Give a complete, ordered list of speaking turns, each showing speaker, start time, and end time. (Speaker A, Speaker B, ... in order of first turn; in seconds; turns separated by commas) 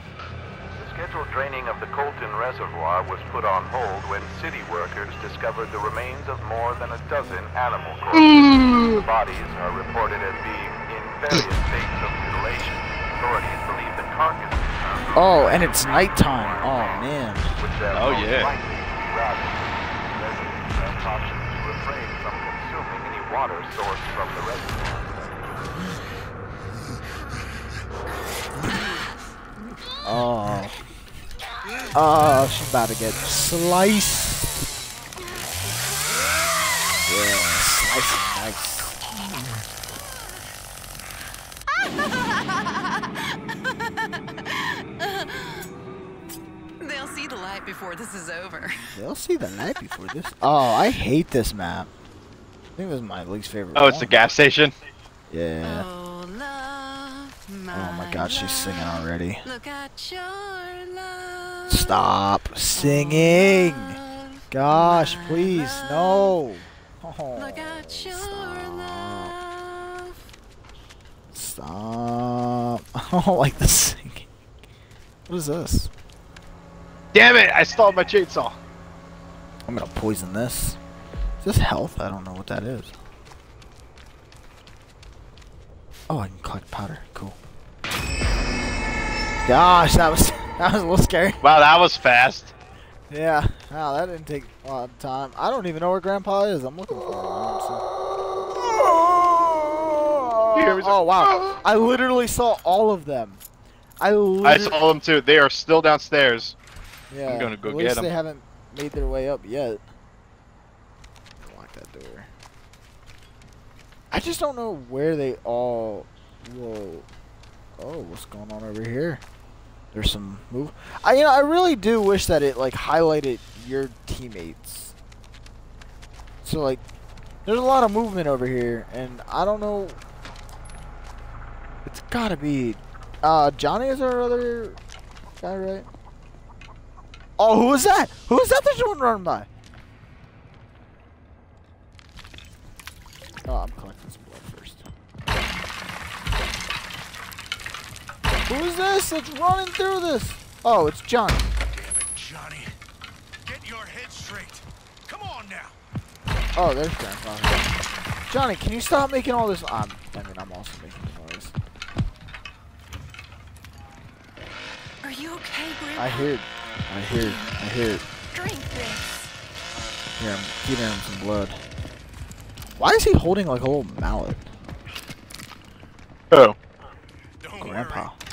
Speaker A: 0.8-25.4, Speaker B: 8.1-9.0, Speaker C: 15.2-17.5, Speaker B: 17.9-18.5, Speaker C: 30.0-30.8, Speaker C: 31.9-34.5, Speaker C: 37.1-39.0, Speaker D: 41.8-43.4, Speaker D: 44.2-45.7, Speaker D: 46.8-48.9, Speaker C: 48.9-51.9, Speaker C: 52.8-54.2, Speaker B: 53.8-54.8, Speaker C: 55.3-55.9, Speaker D: 55.6-61.9, Speaker C: 57.7-59.4, Speaker C: 61.7-64.0, Speaker D: 62.8-66.4, Speaker C: 64.5-69.3, Speaker D: 67.3-70.2, Speaker C: 71.3-74.3, Speaker C: 75.3-75.9, Speaker B: 77.1-78.6, Speaker C: 79.7-80.8, Speaker C: 81.4-82.9, Speaker C: 86.1-87.4, Speaker C: 89.5-91.4, Speaker B: 91.4-92.5, Speaker C: 93.1-97.8, Speaker C: 98.6-103.4, Speaker B: 100.5-101.6, Speaker C: 104.0-104.8, Speaker B: 104.4-106.5, Speaker C: 107.1-109.8, Speaker B: 107.3-108.1, Speaker C: 111.4-112.3, Speaker C: 114.1-117.1, Speaker C: 117.8-119.2, Speaker C: 119.9-124.9, Speaker C: 126.4-126.8, Speaker C: 127.5-130.0, Speaker C: 131.8-134.8, Speaker C: 135.4-135.9, Speaker C: 137.4-139.5, Speaker C: 143.5-144.8, Speaker C: 148.5-151.5, Speaker E: 151.7-152.8, Speaker E: 153.4-155.8, Speaker C: 156.6-157.7, Speaker C: 158.3-161.5, Speaker D: 165.0-166.3, Speaker C: 166.0-168.0, Speaker D: 167.1-167.6, Speaker D: 168.3-169.3, Speaker C: 170.2-171.6, Speaker C: 172.8-174.5, Speaker B: 176.3-176.6, Speaker E: 177.4-178.1, Speaker C: 177.6-178.2